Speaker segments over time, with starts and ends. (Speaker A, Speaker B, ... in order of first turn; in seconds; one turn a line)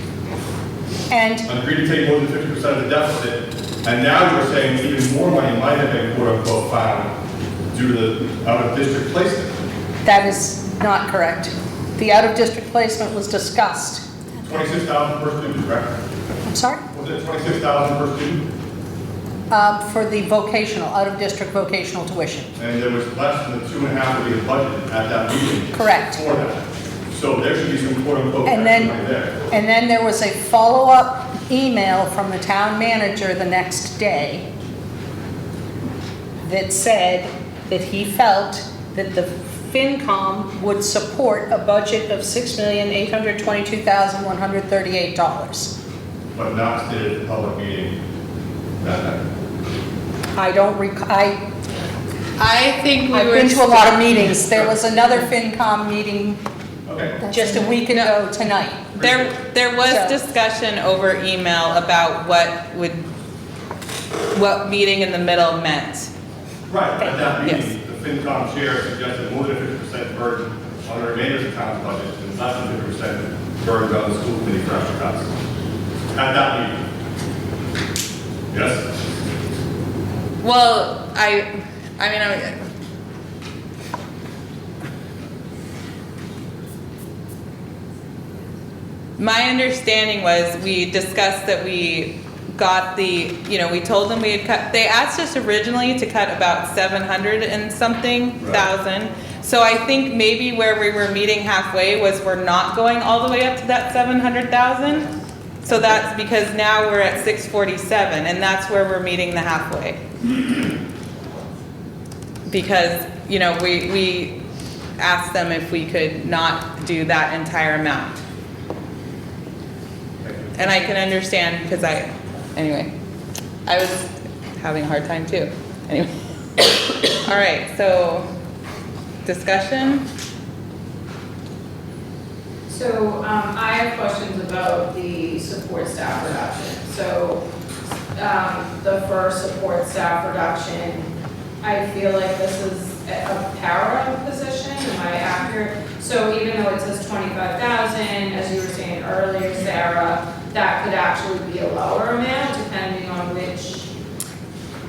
Speaker A: 1.1-1.4
Speaker B: 1.4-7.2
Speaker B: 7.7-9.6
Speaker A: 10.0-14.0
Speaker B: 14.4-15.9
Speaker A: 16.5-16.8
Speaker B: 16.9-18.4
Speaker A: 19.5-22.5
Speaker B: 22.6-29.4
Speaker A: 25.7-26.2
Speaker A: 28.4-34.5
Speaker A: 36.4-45.7
Speaker B: 46.3-48.0
Speaker B: 48.8-49.2
Speaker A: 50.4-51.4
Speaker C: 52.4-54.6
Speaker A: 53.1-56.4
Speaker B: 56.9-57.1
Speaker A: 57.2-58.9
Speaker C: 57.4-58.1
Speaker C: 58.9-63.0
Speaker B: 59.0-59.3
Speaker A: 59.9-60.2
Speaker C: 64.3-66.1
Speaker B: 66.7-75.3
Speaker B: 76.1-76.8
Speaker B: 78.5-78.9
Speaker C: 80.4-82.6
Speaker C: 89.2-105.1
Speaker B: 98.4-98.7
Speaker C: 105.6-110.0
Speaker C: 112.5-114.4
Speaker C: 115.0-118.2
Speaker B: 120.2-120.7
Speaker C: 120.5-122.9
Speaker C: 123.7-128.2
Speaker C: 129.2-130.0
Speaker D: 132.7-137.4
Speaker D: 138.2-141.1
Speaker D: 141.6-153.9